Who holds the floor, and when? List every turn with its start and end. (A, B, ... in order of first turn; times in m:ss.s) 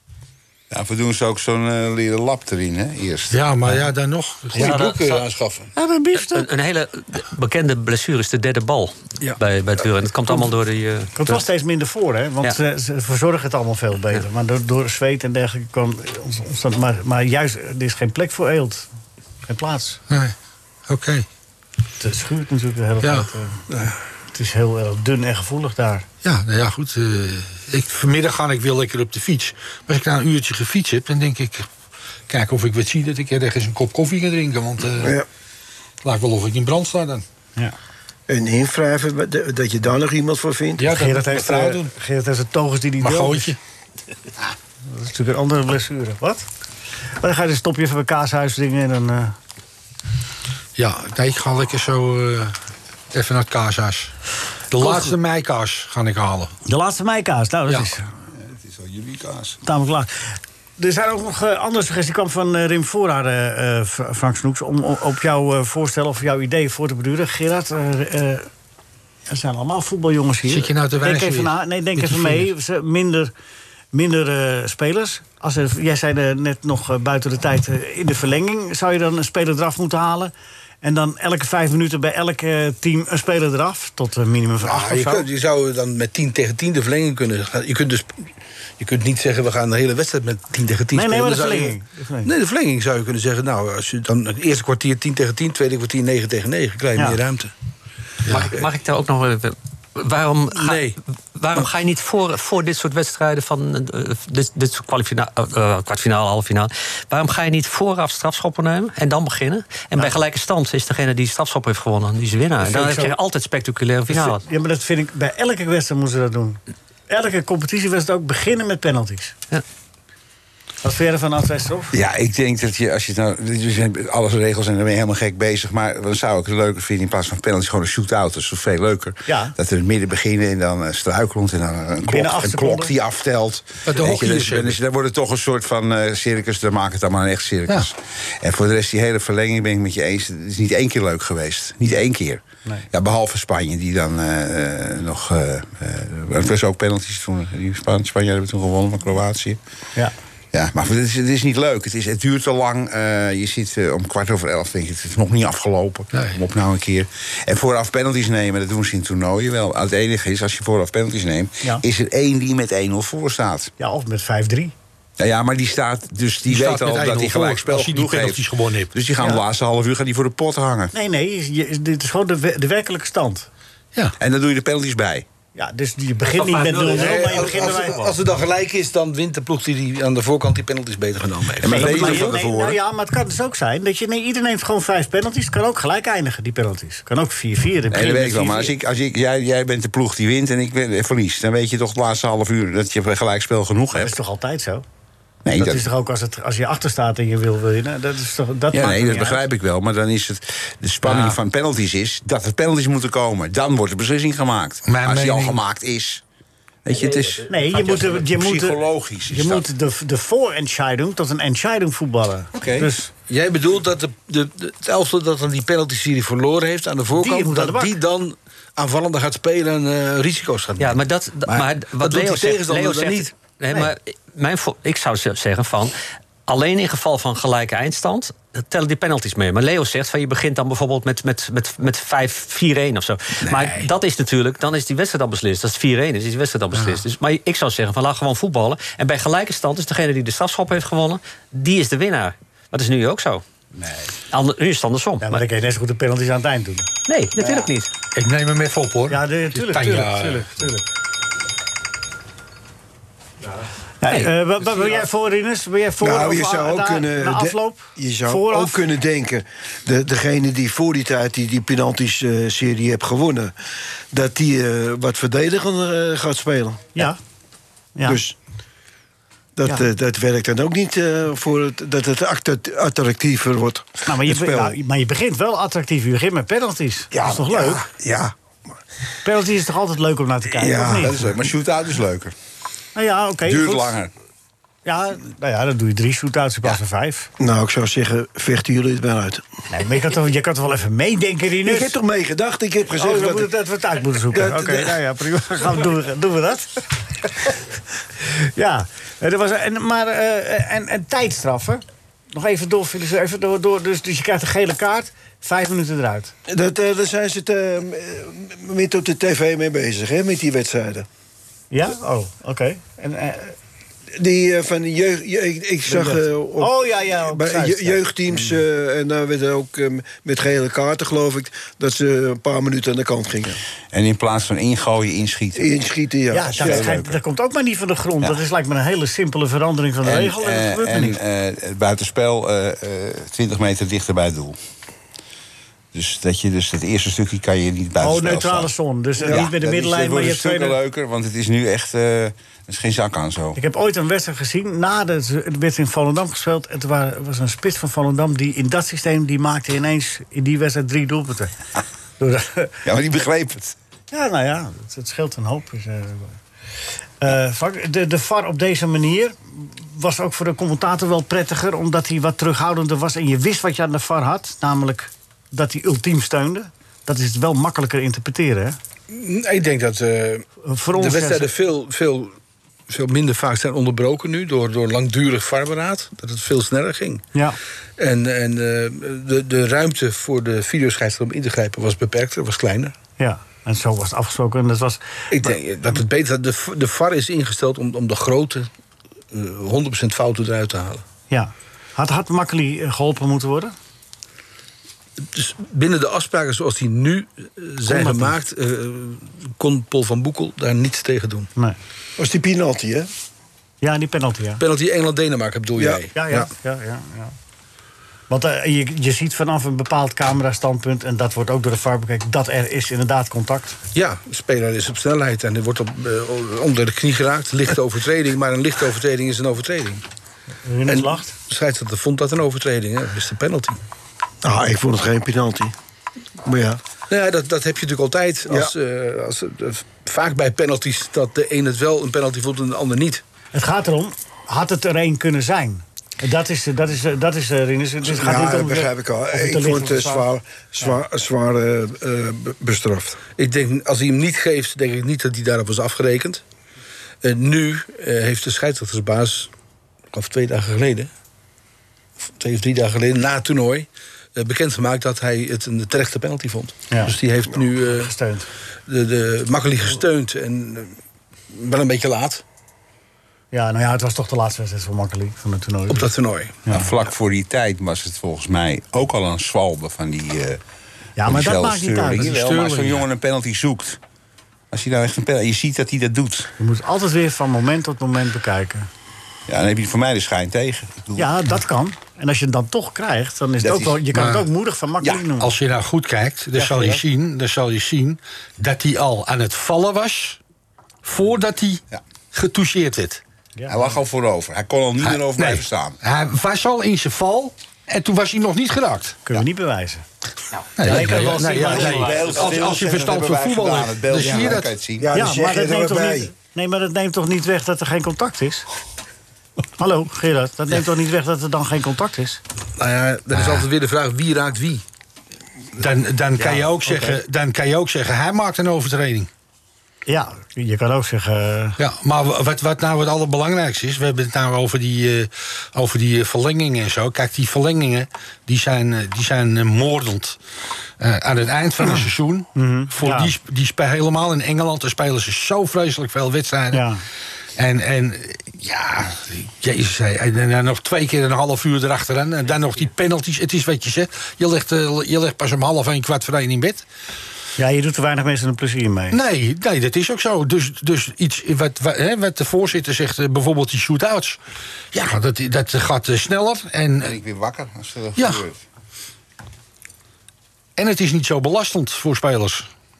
0:00.7-0:03.4 A
0:03.3-0:05.0 B
0:04.5-0:05.7 C
0:04.6-0:05.2 D
0:05.8-0:06.5 E
0:06.2-0:11.4 D
0:11.2-0:18.9 E
0:19.4-0:20.0 E
0:20.9-0:21.2 B
0:22.0-0:23.6 E
0:23.0-0:23.3 B
0:24.3-0:26.0 E
0:26.2-0:31.7 B
0:32.3-0:35.2 B
0:35.0-0:35.2 F
0:36.0-0:37.2 B
0:38.3-0:40.9 F
0:40.8-0:41.9 B
0:40.9-0:43.5 E
0:43.0-0:43.6 B
0:44.9-0:46.4 E
0:47.2-0:49.4 E
0:50.8-0:52.5 B
0:53.1-0:54.1 B
0:54.7-0:56.5 B
0:54.8-0:55.1 E
0:56.6-0:58.1 E
0:58.4-0:59.6 A
0:59.6-1:08.5 E
1:09.3-1:13.3 E
1:10.5-1:12.5 B
1:13.9-1:25.2 E
1:24.6-1:37.5 C
1:30.9-1:32.3 E
1:38.3-1:38.5 B
1:38.3-1:54.4 D
1:40.5-1:41.0 C
1:52.6-1:53.2 E
1:54.1-1:59.4 E
2:00.8-2:01.9 E
2:01.9-2:29.6 A
2:09.3-2:09.5 E
2:12.1-2:12.9 E
2:13.8-2:14.8 B
2:30.5-2:43.7 A
2:36.1-2:36.4 B
2:43.8-2:44.7 E
2:45.2-2:50.9 A
2:46.5-2:48.9 B
2:50.9-2:53.5 E
2:54.2-2:55.2 A
2:55.5-2:58.1 E
2:56.3-3:02.3 C
3:01.6-3:02.8 A
3:01.7-3:08.7 E
3:07.9-3:14.2 A
3:13.9-3:14.8 E
3:15.4-3:15.9 A
3:15.5-3:19.4 E
3:18.7-3:26.2 A
3:21.0-3:21.4 B
3:24.9-3:25.6 B
3:26.8-3:29.6 A
3:27.5-3:33.1 E
3:32.5-3:32.9 A
3:33.3-3:43.3 C
3:37.2-3:37.9 E
3:40.8-3:45.9 D
3:46.5-4:03.4 D
3:53.5-3:53.9 C
3:56.7-3:57.0 B
4:04.3-4:05.4 D
4:05.2-4:06.9 E
4:07.1-4:07.9 D
4:08.1-4:10.7 B
4:09.1-4:10.8 E
4:14.0-4:18.8 E
4:16.0-4:23.5 F
4:24.1-4:27.0 F
4:28.0-4:28.2 E
4:28.0-4:28.4 F
4:29.6-4:34.8 F
4:34.0-4:37.9 E
4:37.1-4:38.3 F
4:39.2-4:41.1 E
4:40.5-4:41.4 F
4:40.9-4:42.3 A
4:42.9-4:44.0 E
4:43.4-4:44.1 A
4:44.8-4:47.3 E
4:47.4-4:49.4 F
4:49.7-4:51.9 E
4:51.6-4:53.5 F
4:53.0-4:56.8 E
4:54.3-4:54.9 F
4:58.2-5:06.3 E
5:06.5-5:11.1 F
5:11.7-5:13.6 E
5:14.2-5:23.6 F
5:15.9-5:18.4 E
5:23.9-5:25.7 A
5:25.5-5:26.9 F
5:26.3-5:31.2 E
5:26.4-5:27.2 A
5:30.0-5:34.6 A
5:35.9-5:38.7 A
5:38.0-5:40.8 E
5:39.3-5:43.6 A
5:43.6-5:51.5 E
5:52.2-5:52.8 E
5:52.8-5:53.8 A
5:54.1-5:56.4 E
5:57.2-6:08.8 E
6:09.1-6:12.4 C
6:10.6-6:11.5 E
6:12.9-6:17.2 C
6:18.0-6:22.9 C
6:23.2-6:25.5 E
6:25.3-6:28.7 C
6:29.3-6:31.0 C
6:31.3-6:33.7 E
6:35.2-6:41.5 C
6:37.9-6:38.3 E
6:42.2-6:43.1 F
6:43.8-6:44.6 E
6:44.6-6:46.5 C
6:45.8-6:46.0 F
6:46.1-6:47.3 E
6:48.3-6:53.8 E
6:53.9-7:00.0 C
7:00.6-7:01.3 E
7:00.8-7:03.8 C
7:04.4-7:05.7 F
7:06.4-7:06.8 F
7:07.1-7:13.2 C
7:08.5-7:08.7 F
7:13.5-7:20.3 E
7:18.0-7:23.2 F
7:23.4-7:26.4 C
7:27.2-7:29.5 C
7:30.1-7:31.1 C
7:32.4-7:38.1 C
7:36.9-7:37.2 E
7:37.8-7:38.5 E
7:38.9-7:41.0 C
7:41.5-7:42.4 C
7:43.5-7:46.1 E
7:45.9-7:46.6 C
7:46.6-7:46.9 E
7:46.7-7:50.6 A
7:51.2-7:52.3 E
7:51.2-7:54.0 A
7:52.2-7:53.0 B
7:54.7-7:56.5 A
7:56.6-7:58.9 E
7:59.5-8:01.3 A
8:01.2-8:05.5 E
8:03.6-8:04.1 A
8:04.1-8:04.5 B
8:05.4-8:10.4 B
8:06.5-8:07.0 E
8:11.0-8:11.8 B
8:12.3-8:13.2 B
8:13.6-8:13.8 E
8:13.7-8:16.0 A
8:15.0-8:19.2 B
8:19.2-8:20.0 E
8:20.8-8:24.7 B
8:20.8-8:22.4 E
8:21.1-8:25.1 A
8:24.2-8:26.3 F
8:25.1-8:28.6 E
8:29.8-8:32.4 E
8:32.8-8:34.8 C
8:35.8-8:39.3 B
8:36.4-8:37.2 E
8:40.0-8:41.8 E
8:41.8-8:50.4 B
8:51.0-8:56.9 B
8:52.5-8:53.3 E
8:56.7-8:57.0 E
8:57.6-9:06.8 B
9:07.6-9:09.2 E
9:09.1-9:14.4 B
9:14.9-9:17.2 B
9:17.0-9:18.6 A
9:18.2-9:18.4 B
9:20.8-9:22.7 B